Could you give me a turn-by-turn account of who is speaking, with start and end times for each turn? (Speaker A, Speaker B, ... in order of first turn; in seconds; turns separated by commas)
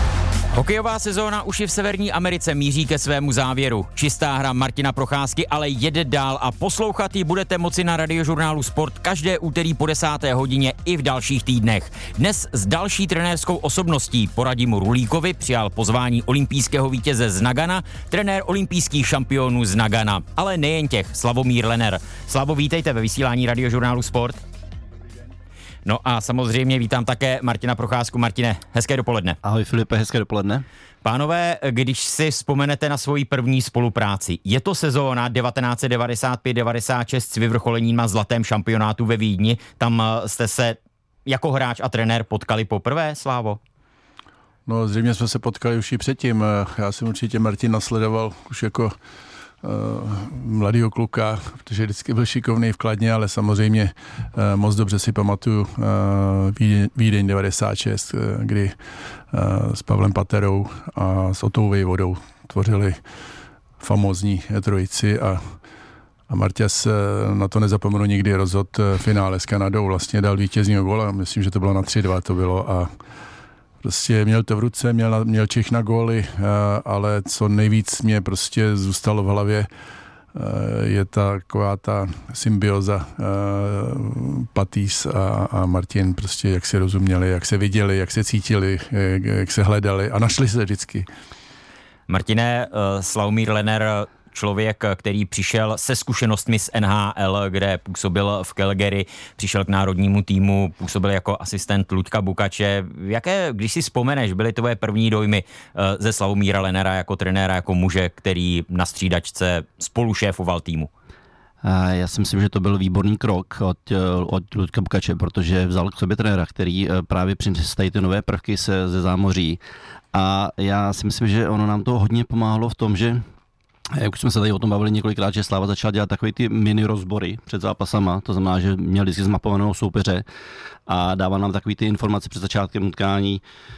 Speaker A: 0.5-24.4, Speaker A: 25.8-29.4, Speaker B: 29.4-30.6, Speaker A: 31.0-43.6, Speaker C: 44.7-48.9, Speaker C: 49.6-58.8, Speaker C: 59.3-63.0, Speaker C: 63.8-65.4, Speaker C: 66.3-72.9, Speaker C: 73.8-79.7, Speaker C: 80.3-91.1, Speaker A: 92.1-110.9, Speaker B: 111.6-119.6, Speaker B: 120.1-123.2, Speaker B: 123.9-130.2, Speaker B: 130.9-133.4